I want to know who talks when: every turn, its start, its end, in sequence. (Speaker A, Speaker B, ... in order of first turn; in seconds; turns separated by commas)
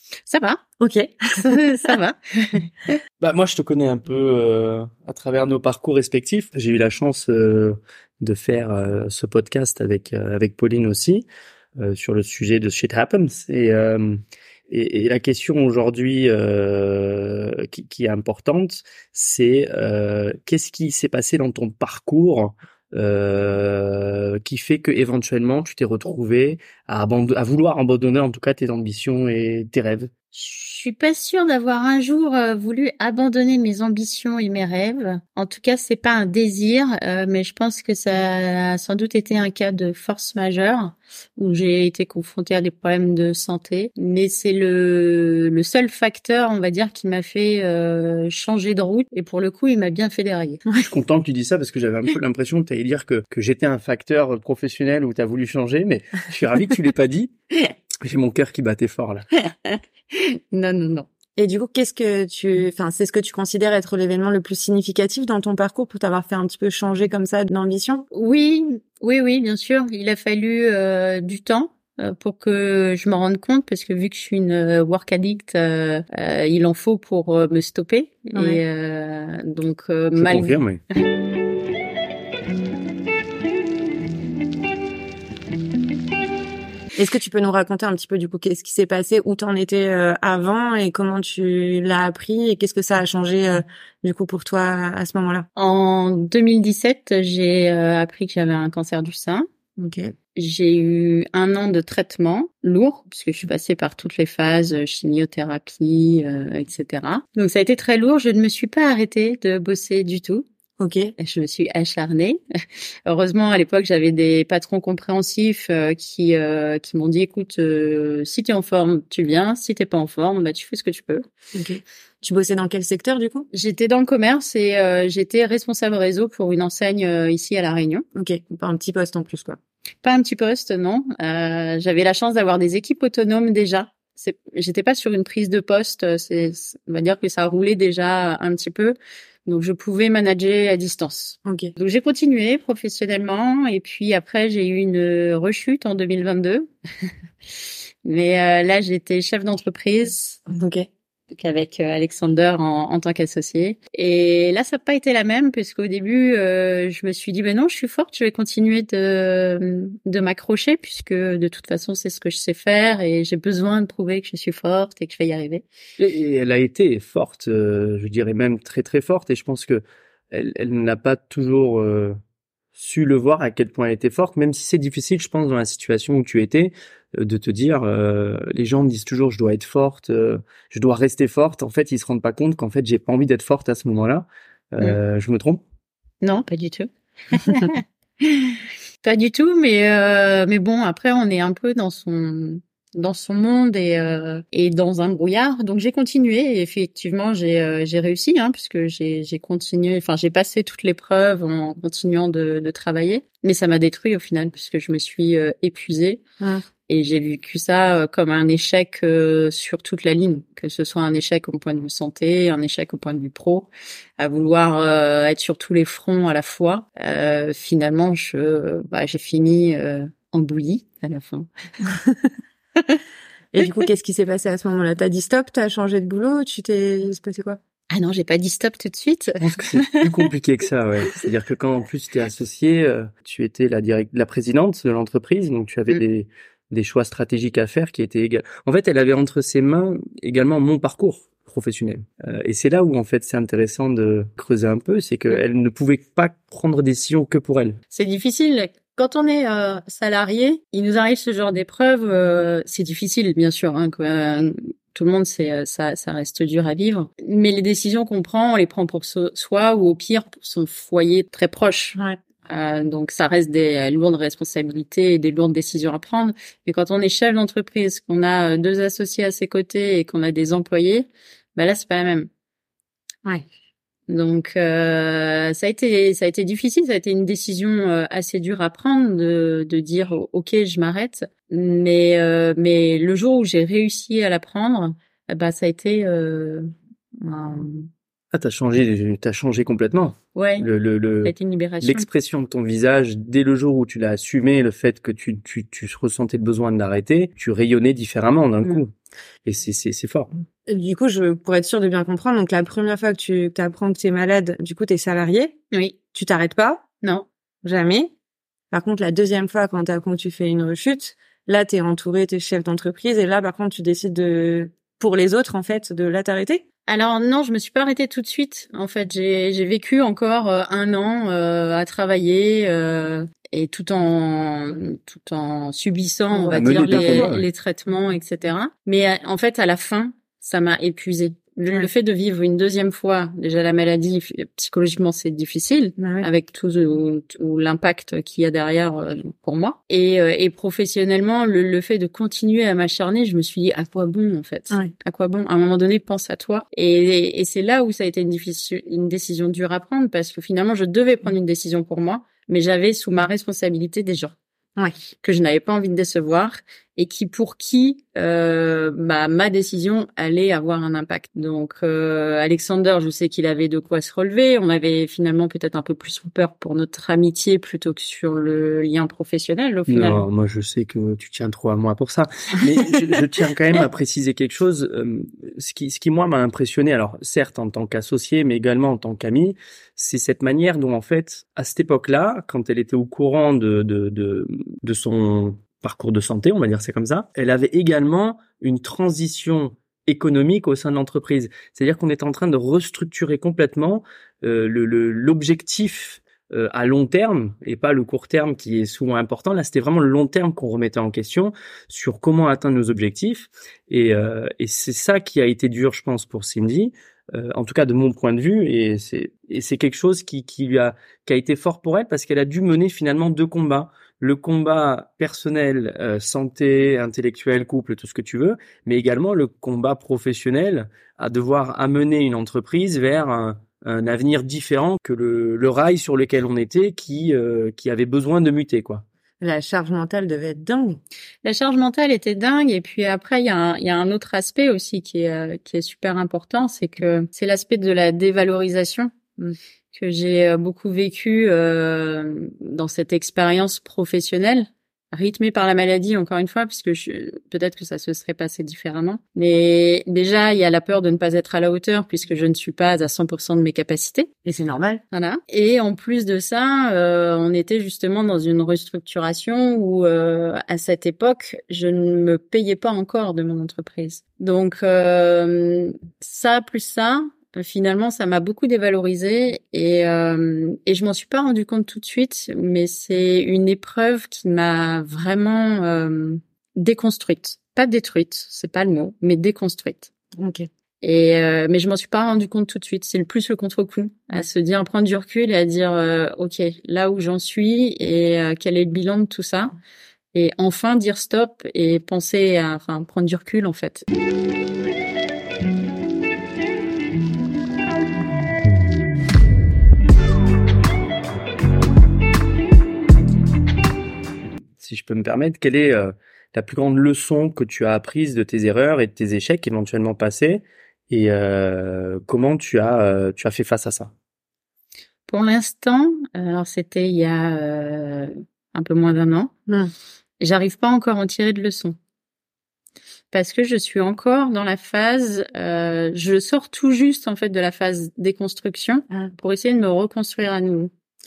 Speaker A: 0.3-0.6, Speaker B: 0.8-1.9, Speaker A: 1.4-3.0, Speaker C: 3.2-30.1, Speaker A: 30.3-50.6, Speaker C: 50.8-57.3, Speaker C: 58.0-59.3, Speaker A: 59.6-61.1, Speaker B: 61.4-68.0, Speaker A: 68.1-80.6, Speaker B: 78.3-78.6, Speaker C: 80.2-80.8, Speaker B: 87.0-95.5, Speaker A: 95.6-99.5, Speaker B: 99.8-100.1, Speaker A: 100.4-110.5, Speaker B: 110.8-111.1, Speaker A: 111.2-112.4, Speaker A: 113.1-121.2, Speaker B: 121.5-123.5, Speaker A: 123.5-128.1, Speaker B: 128.2-129.6, Speaker A: 130.0-146.7, Speaker B: 141.4-141.7, Speaker A: 148.1-150.4, Speaker B: 150.5-150.9, Speaker A: 151.3-165.6, Speaker C: 166.0-172.2, Speaker C: 172.8-185.6, Speaker A: 186.2-206.2, Speaker A: 206.9-221.5, Speaker B: 223.5-227.6, Speaker A: 227.9-230.1, Speaker C: 229.4-247.8, Speaker A: 247.9-272.3, Speaker A: 274.1-287.9, Speaker C: 288.3-298.9, Speaker A: 290.4-290.7, Speaker A: 291.2-292.1, Speaker C: 299.4-300.3, Speaker B: 300.7-305.6, Speaker B: 306.1-306.9, Speaker B: 307.6-308.1, Speaker B: 308.7-316.6, Speaker A: 316.9-354.4, Speaker B: 326.3-327.3, Speaker C: 326.5-327.4, Speaker B: 336.0-336.3, Speaker A: 355.2-370.2, Speaker C: 369.9-429.1, Speaker B: 429.4-431.0, Speaker A: 431.4-439.1, Speaker A: 439.9-454.3, Speaker B: 454.4-455.0, Speaker A: 455.1-480.1, Speaker B: 480.4-480.7, Speaker A: 481.0-489.8, Speaker A: 490.3-494.1, Speaker C: 504.8-514.1, Speaker A: 515.3-519.5, Speaker B: 519.7-519.9, Speaker A: 520.4-522.0, Speaker A: 523.3-530.9